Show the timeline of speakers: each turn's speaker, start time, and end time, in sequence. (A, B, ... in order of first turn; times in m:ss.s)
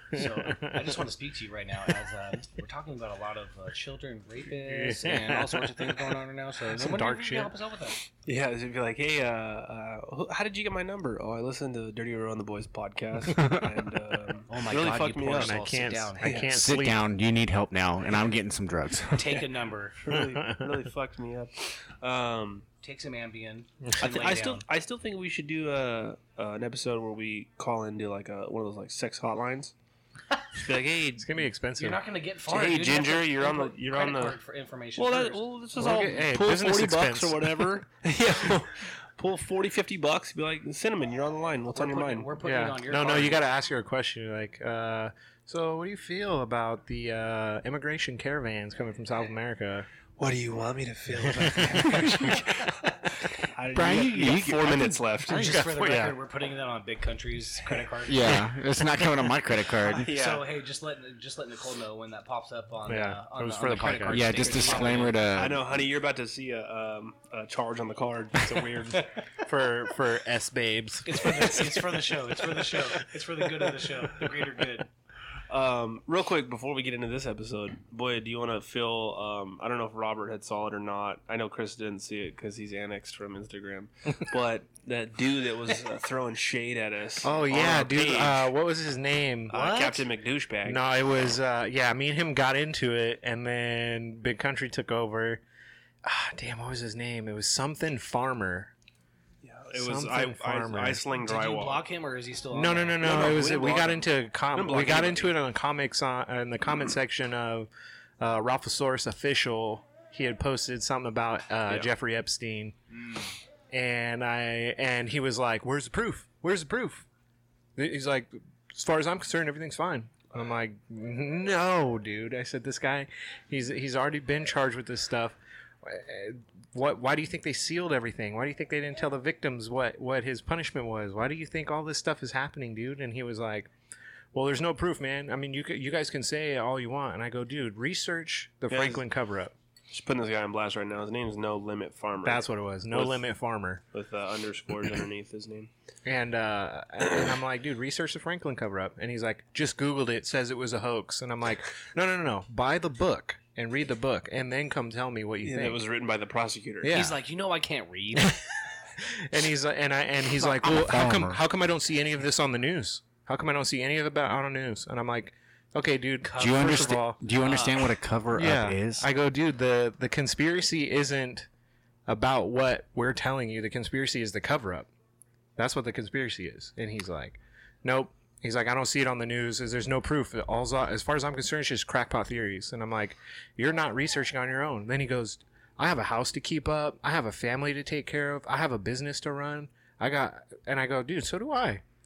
0:00.1-0:08.0 A
0:00.1-0:00.8 B
0:04.6-0:05.7 B
0:06.7-0:07.5 B
0:08.2-0:15.6 C
0:14.5-0:16.3 A
0:15.3-0:17.0 B
0:16.2-0:16.5 C
0:16.5-0:19.2 D
0:19.1-0:20.0 A
0:20.0-0:22.7 C
0:20.1-0:20.6 B
0:22.8-0:24.6 A
0:24.0-0:29.7 C
0:30.5-0:31.5 C
0:31.2-0:32.0 B
0:31.8-0:35.4 A
0:32.5-0:34.4 C
0:35.0-0:42.3 C
0:35.8-0:37.7 B
0:41.7-0:43.4 A
0:42.4-0:49.9 B
0:50.2-0:55.6 C
0:51.3-0:52.0 B
0:53.7-0:55.0 D
0:55.2-0:58.3 A
0:55.3-0:56.2 B
0:58.0-1:00.1 D
0:59.9-1:05.2 A
1:00.0-1:00.5 C
1:02.9-1:04.3 B
1:04.0-1:05.6 D
1:04.4-1:09.1 C
1:09.4-1:11.2 B
1:11.0-1:14.9 A
1:11.2-1:12.8 C
1:15.5-1:28.5 C
1:27.2-1:30.0 B
1:29.5-1:30.9 C
1:30.6-1:35.4 B
1:36.0-1:38.7 B
1:39.4-1:41.8 C
1:39.7-1:41.0 B
1:41.2-1:43.0 A
1:42.5-1:52.8 B
1:43.0-1:45.4 C
1:53.7-1:57.1 B
1:57.8-2:13.7 B
2:14.3-2:19.5 B
2:18.7-2:19.0 C
2:19.9-2:23.2 C
2:22.2-2:23.8 B
2:23.9-2:25.7 C
2:26.0-2:35.8 B
2:35.4-2:36.9 C
2:36.8-2:37.2 B
2:36.9-2:38.4 A
2:39.0-2:47.2 B
2:40.4-2:41.4 D
2:46.3-2:46.7 A
2:46.4-2:49.1 D
2:47.4-2:47.8 A
2:48.4-2:51.5 B
2:52.1-2:54.9 B
2:55.6-3:11.8 B